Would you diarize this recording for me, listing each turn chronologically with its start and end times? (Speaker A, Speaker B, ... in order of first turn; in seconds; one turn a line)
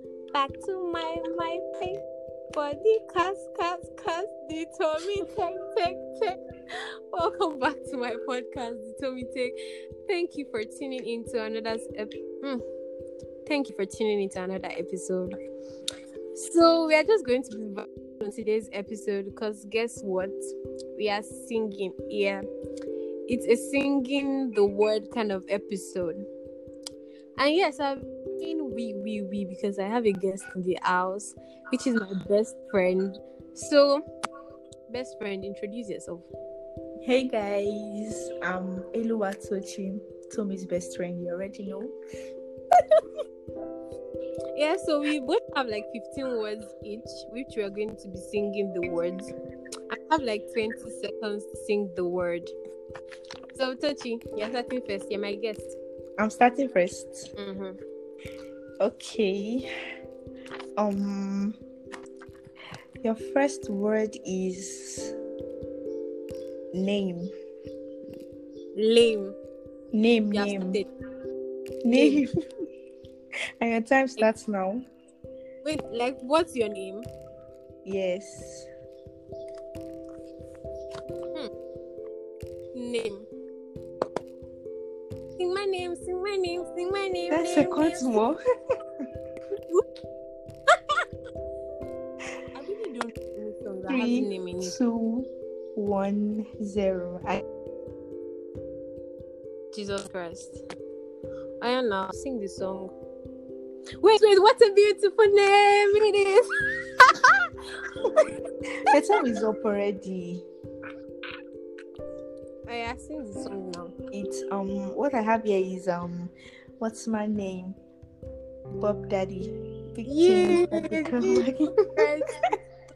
Speaker A: 0.3-12.6
Speaker A: 13.4-15.3
Speaker A: 16.4-22.4
Speaker A: 23.3-26.3
Speaker A: 27.4-34.0
Speaker A: 34.9-36.3
Speaker B: 37.0-41.9
Speaker A: 44.5-49.3
Speaker A: 49.9-52.5
Speaker A: 53.5-55.8
Speaker B: 56.2-57.3
Speaker A: 57.4-57.8
Speaker B: 58.8-59.7
Speaker B: 60.8-61.6
Speaker B: 63.0-65.1
Speaker B: 66.7-67.3
Speaker A: 68.7-69.3
Speaker B: 69.9-70.8
Speaker A: 70.3-70.9
Speaker B: 71.8-72.3
Speaker A: 71.9-72.2
Speaker B: 73.6-74.8
Speaker A: 75.6-77.1
Speaker B: 77.8-78.7
Speaker A: 82.7-83.3
Speaker A: 85.4-88.1
Speaker B: 87.3-88.4
Speaker A: 90.7-91.0
Speaker A: 92.5-94.8
Speaker B: 93.9-97.4
Speaker A: 99.7-100.6
Speaker A: 101.6-102.9
Speaker A: 104.0-107.5
Speaker B: 108.9-110.4
Speaker A: 108.9-109.2
Speaker A: 112.7-113.9
Speaker B: 114.1-117.8
Speaker B: 118.8-122.0
Speaker A: 120.0-122.6